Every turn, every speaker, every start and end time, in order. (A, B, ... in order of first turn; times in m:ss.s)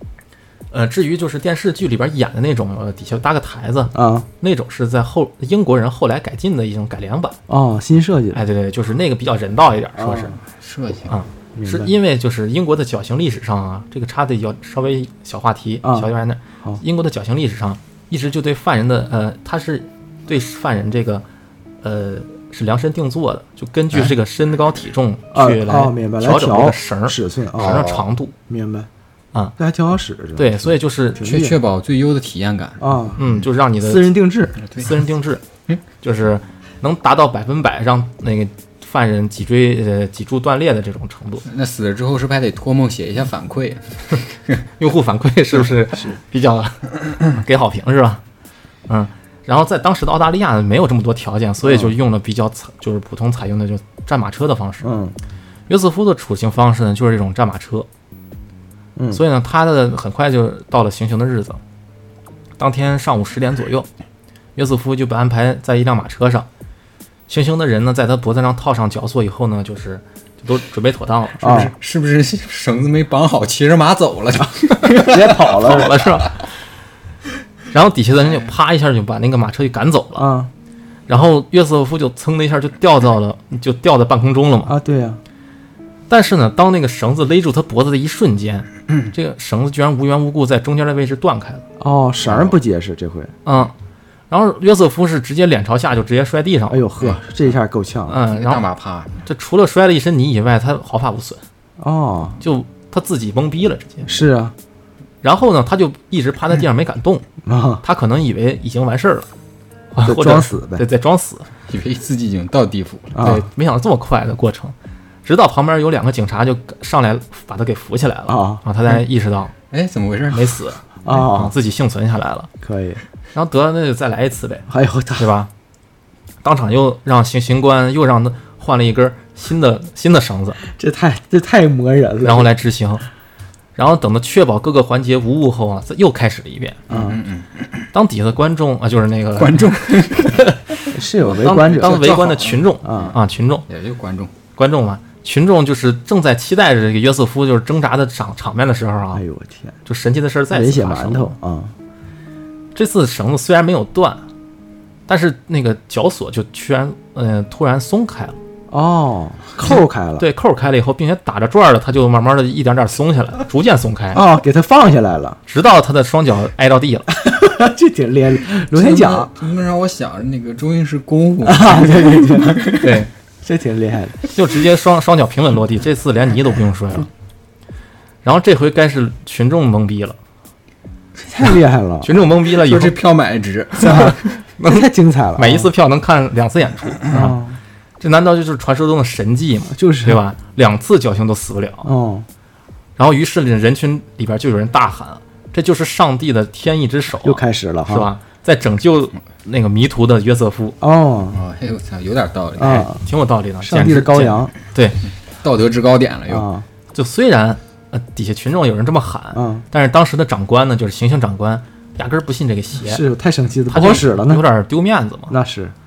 0:00.7-0:07.4 A
0:03.9-0:04.3 B
0:07.5-0:08.4 B
0:08.3-0:10.4 A
0:10.0-0:10.4 B
0:10.5-0:11.2 C
0:11.1-0:21.2 A
0:11.6-0:11.9 B
0:15.8-0:16.1 B
0:21.8-0:28.3 A
0:25.3-0:27.9 B
0:27.6-0:28.1 C
0:28.5-0:28.9 B
0:29.6-0:31.6 B
0:30.4-0:31.3 A
0:31.2-0:33.4 C
0:32.8-0:33.2 B
0:33.2-0:34.2 A
0:33.8-0:34.6 B
0:34.6-0:34.9 C
0:34.8-0:35.5 A
0:36.0-0:41.5 A
0:41.5-0:44.6 C
0:44.8-0:48.2 A
0:48.9-0:54.9 A
0:51.6-0:51.9 B
0:54.8-0:55.2 B
0:55.7-0:57.9 A
0:59.0-0:59.2 B
0:59.1-1:01.6 A
1:02.6-1:03.9 A
1:04.6-1:06.5 A
1:07.3-1:11.6 A
1:11.4-1:11.7 B
1:11.4-1:16.0 C
1:14.9-1:16.0 B
1:15.6-1:16.4 A
1:17.7-1:20.3 A
1:20.2-1:20.5 B
1:21.1-1:24.7 A
1:24.7-1:25.2 B
1:26.1-1:31.6 A
1:31.8-1:33.3 B
1:32.2-1:32.6 C
1:33.4-1:33.7 A
1:34.3-1:36.9 A
1:36.7-1:38.2 B
1:38.1-1:38.6 A
1:38.3-1:39.2 C
1:39.3-1:41.4 A
1:41.8-1:42.4 B
1:42.4-1:44.2 A
1:44.1-1:44.6 B
1:45.2-1:47.2 A
1:47.4-1:47.8 B
1:47.8-1:49.3 A
1:49.9-1:51.5 A
1:50.0-1:50.8 B
1:51.7-1:53.4 C
1:53.2-1:53.4 B
1:53.2-1:59.6 A
1:58.3-1:58.6 B
1:59.7-2:00.6 C
2:00.3-2:02.5 A
2:01.0-2:01.5 B
2:02.6-2:03.0 B
2:03.3-2:05.5 A
2:04.7-2:05.3 B
2:06.4-2:10.6 A
2:10.6-2:12.5 B
2:12.2-2:13.1 A
2:13.8-2:16.8 A
2:16.9-2:17.2 B
2:16.9-2:17.8 C
2:17.9-2:19.7 A
2:19.4-2:20.5 C
2:20.3-2:20.6 A
2:20.9-2:22.2 B
2:21.2-2:23.2 C
2:21.4-2:23.7 A
2:22.8-2:23.2 B
2:23.7-2:24.3 C
2:24.6-2:29.2 A
2:29.1-2:29.8 B
2:29.9-2:31.4 A
2:30.5-2:31.7 B
2:32.8-2:34.2 A
2:35.1-2:38.4 A
2:38.7-2:40.3 B
2:40.2-2:44.2 A
2:44.1-2:45.4 B
2:45.5-2:47.2 A
2:47.1-2:49.3 B
2:48.7-2:53.0 C
2:51.4-2:52.9 B
2:52.8-2:53.1 A
2:53.4-2:54.2 B
2:54.3-2:57.1 A
2:58.2-3:00.2 A
3:01.2-3:02.1 B
3:02.0-3:03.0 A
3:02.5-3:04.3 C
3:03.8-3:07.3 A
3:04.6-3:05.7 B
3:07.1-3:07.6 B
3:08.0-3:11.9 A
3:09.7-3:10.2 B
3:11.8-3:12.3 B
3:13.0-3:20.8 A
3:17.2-3:18.1 B
3:20.8-3:21.4 B
3:21.3-3:22.9 C
3:22.6-3:23.0 B
3:23.0-3:25.0 A
3:23.6-3:24.5 B
3:25.4-3:26.5 C
3:26.3-3:26.7 B
3:26.9-3:33.0 A
3:29.3-3:29.6 B
3:32.8-3:34.4 B
3:33.7-3:35.4 A
3:35.3-3:35.7 B